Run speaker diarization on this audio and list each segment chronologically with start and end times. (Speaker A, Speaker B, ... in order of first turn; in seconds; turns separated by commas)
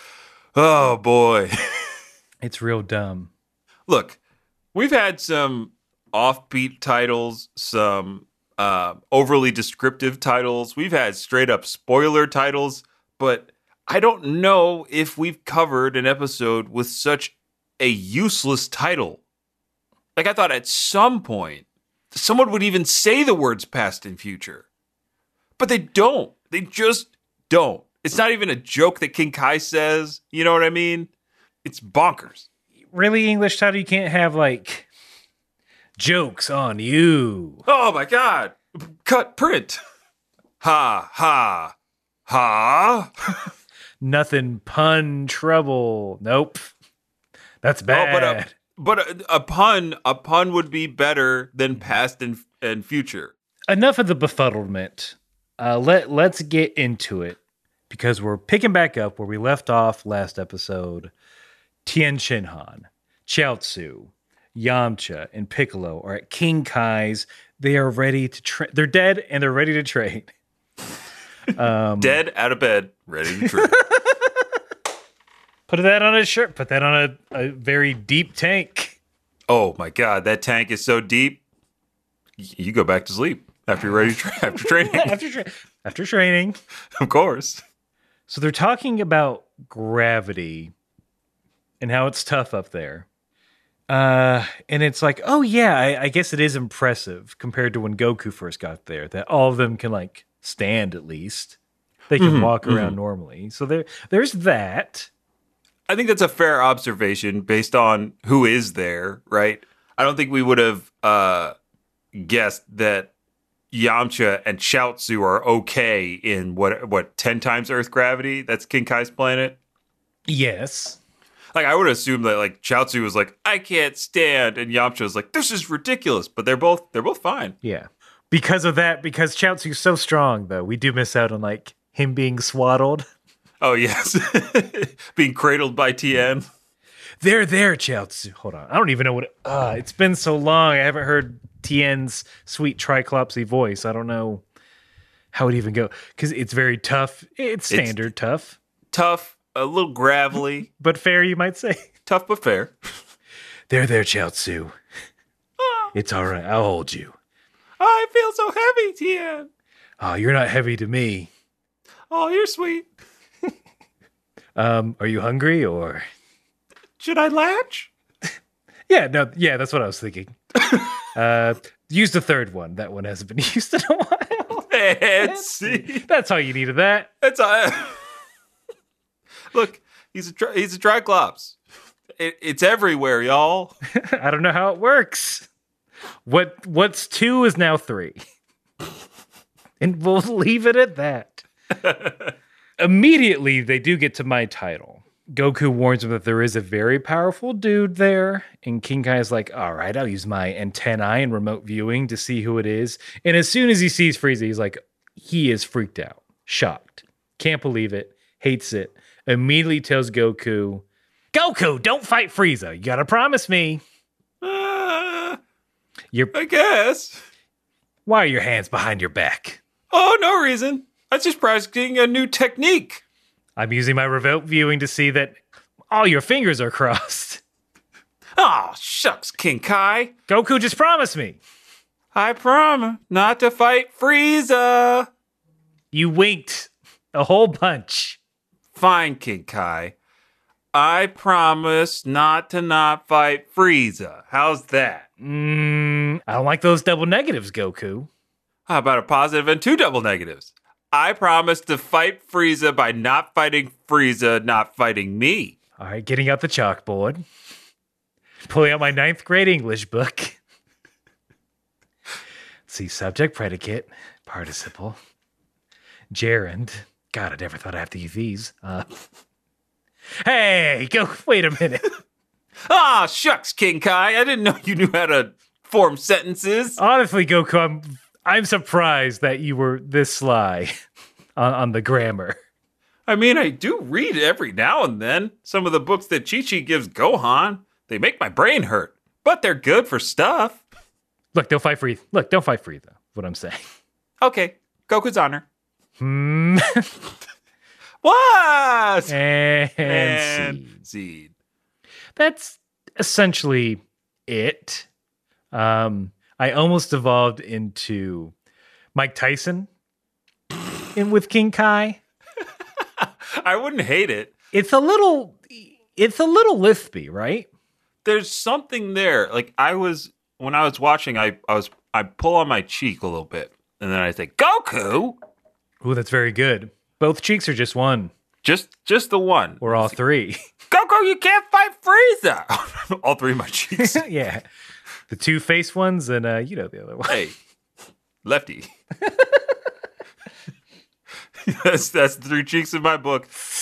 Speaker A: 0.5-1.5, Speaker B: 2.4-3.3, Speaker A: 3.9-4.2, Speaker A: 4.7-19.2, Speaker A: 20.1-24.6, Speaker A: 25.6-31.1, Speaker A: 31.6-32.5, Speaker B: 32.9-34.9, Speaker B: 36.0-37.6, Speaker A: 37.6-39.8, Speaker A: 40.6-41.7, Speaker A: 42.3-43.5, Speaker B: 44.0-46.7, Speaker B: 47.6-48.5, Speaker A: 47.9-53.3, Speaker B: 53.7-61.1, Speaker B: 61.8-70.3, Speaker B: 71.5-72.2, Speaker A: 72.0-73.8, Speaker B: 73.4-74.3, Speaker B: 75.7-79.0, Speaker A: 79.5-81.4, Speaker A: 82.4-85.2, Speaker B: 84.6-86.5, Speaker A: 87.0-87.6, Speaker B: 88.3-90.7, Speaker B: 91.8-93.0, Speaker B: 93.9-101.6, Speaker B: 102.1-105.1, Speaker A: 102.2-103.0, Speaker A: 105.9-111.5, Speaker A: 112.1-113.1, Speaker A: 113.7-119.6, Speaker B: 120.3-121.0, Speaker A: 121.5-127.5, Speaker B: 127.6-133.0, Speaker A: 133.6-136.5, Speaker B: 137.2-144.4, Speaker B: 145.3-148.6, Speaker A: 147.7-148.0, Speaker A: 148.9-150.7, Speaker B: 150.8-151.9, Speaker A: 152.1-152.8, Speaker B: 153.7-154.7, Speaker A: 155.6-155.9, Speaker B: 155.9-157.2, Speaker A: 157.8-159.5, Speaker B: 160.0-161.3, Speaker A: 162.1-162.9, Speaker B: 164.6-166.0, Speaker A: 167.0-167.9, Speaker B: 168.9-177.1, Speaker A: 174.7-176.0, Speaker A: 177.2-178.1, Speaker A: 179.5-181.6, Speaker A: 182.2-183.7, Speaker B: 184.0-185.5, Speaker B: 186.2-188.2, Speaker B: 189.8-191.4, Speaker A: 191.8-192.3, Speaker B: 192.8-213.8, Speaker A: 214.4-215.4, Speaker A: 216.3-217.2, Speaker B: 218.1-219.6, Speaker A: 219.9-223.0, Speaker B: 223.6-227.4, Speaker A: 228.3-230.1, Speaker B: 230.3-231.4, Speaker A: 232.1-235.1, Speaker B: 235.9-238.2, Speaker A: 238.7-239.9, Speaker A: 240.7-245.1, Speaker B: 245.2-248.1, Speaker A: 248.7-255.6, Speaker B: 255.8-257.2, Speaker B: 258.5-260.4, Speaker B: 262.7-265.0, Speaker B: 266.1-268.9, Speaker B: 270.2-271.9, Speaker A: 272.6-276.8, Speaker B: 276.8-280.8, Speaker B: 281.4-282.4, Speaker A: 283.1-290.6, Speaker B: 291.3-293.6, Speaker A: 294.2-295.4, Speaker B: 296.0-296.9, Speaker A: 298.0-299.2, Speaker B: 299.1-300.8, Speaker A: 299.8-301.3, Speaker B: 302.1-304.9, Speaker B: 305.5-308.3, Speaker B: 308.9-309.7, Speaker B: 310.9-312.0, Speaker A: 312.8-314.3, Speaker B: 314.5-317.5, Speaker A: 318.0-325.2, Speaker B: 325.8-328.1, Speaker A: 328.4-329.9, Speaker B: 329.6-330.4, Speaker A: 330.7-334.0, Speaker B: 333.8-334.4, Speaker B: 335.1-337.2, Speaker A: 337.1-337.4, Speaker A: 338.2-338.7, Speaker B: 339.1-339.4, Speaker A: 341.4-343.4